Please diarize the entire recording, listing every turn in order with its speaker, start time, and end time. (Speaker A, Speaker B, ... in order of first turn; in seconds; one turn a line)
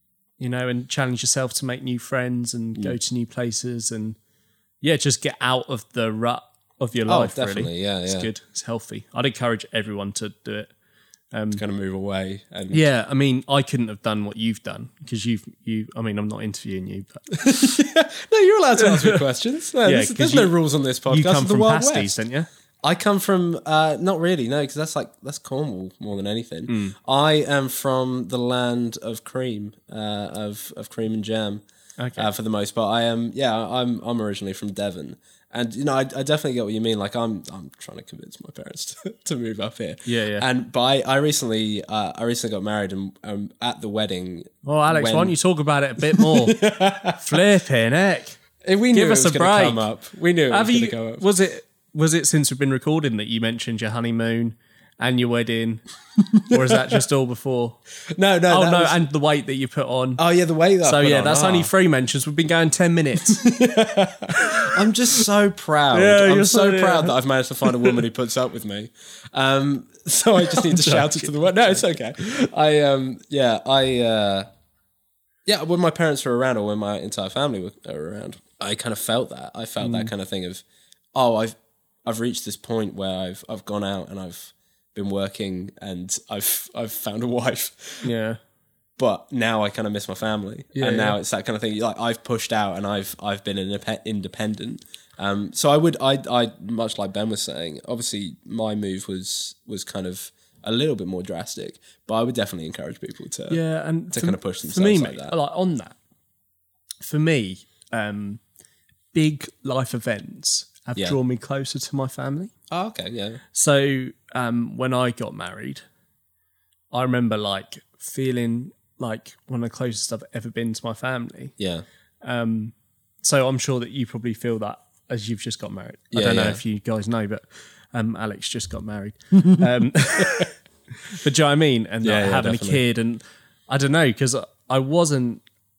Speaker A: 0.4-4.2
Speaker A: 4.8-10.7
Speaker B: 7.1-8.3
Speaker A: 11.3-11.6
Speaker B: 11.5-12.8
Speaker A: 12.7-17.3
Speaker B: 17.3-22.1
Speaker A: 18.8-19.2
Speaker A: 19.8-20.5
Speaker A: 21.1-22.5
Speaker B: 22.8-31.6
Speaker A: 26.7-27.0
Speaker A: 32.0-32.3
Speaker B: 32.2-45.4
Speaker A: 40.0-40.5
Speaker A: 44.6-48.4
Speaker B: 46.1-47.4
Speaker B: 48.6-51.3
Speaker A: 48.9-49.9
Speaker A: 50.5-55.8
Speaker B: 56.2-56.9
Speaker A: 56.4-57.8
Speaker B: 58.1-59.0
Speaker A: 58.5-60.2
Speaker B: 60.2-61.7
Speaker A: 60.8-63.5
Speaker B: 63.3-74.5
Speaker A: 64.3-65.2
Speaker A: 65.9-67.2
Speaker A: 67.7-68.0
Speaker A: 70.4-71.5
Speaker B: 75.5-80.6
Speaker A: 79.8-80.1
Speaker B: 81.2-88.1
Speaker A: 88.0-88.4
Speaker B: 89.0-103.6
Speaker A: 90.8-91.2
Speaker A: 103.5-106.0
Speaker B: 104.1-105.3
Speaker A: 107.0-108.4
Speaker A: 109.1-112.5
Speaker B: 112.7-113.4
Speaker A: 113.5-115.8
Speaker A: 116.9-121.6
Speaker B: 121.6-121.8
Speaker A: 122.2-130.6
Speaker B: 126.1-126.6
Speaker A: 131.1-135.4
Speaker B: 132.0-132.8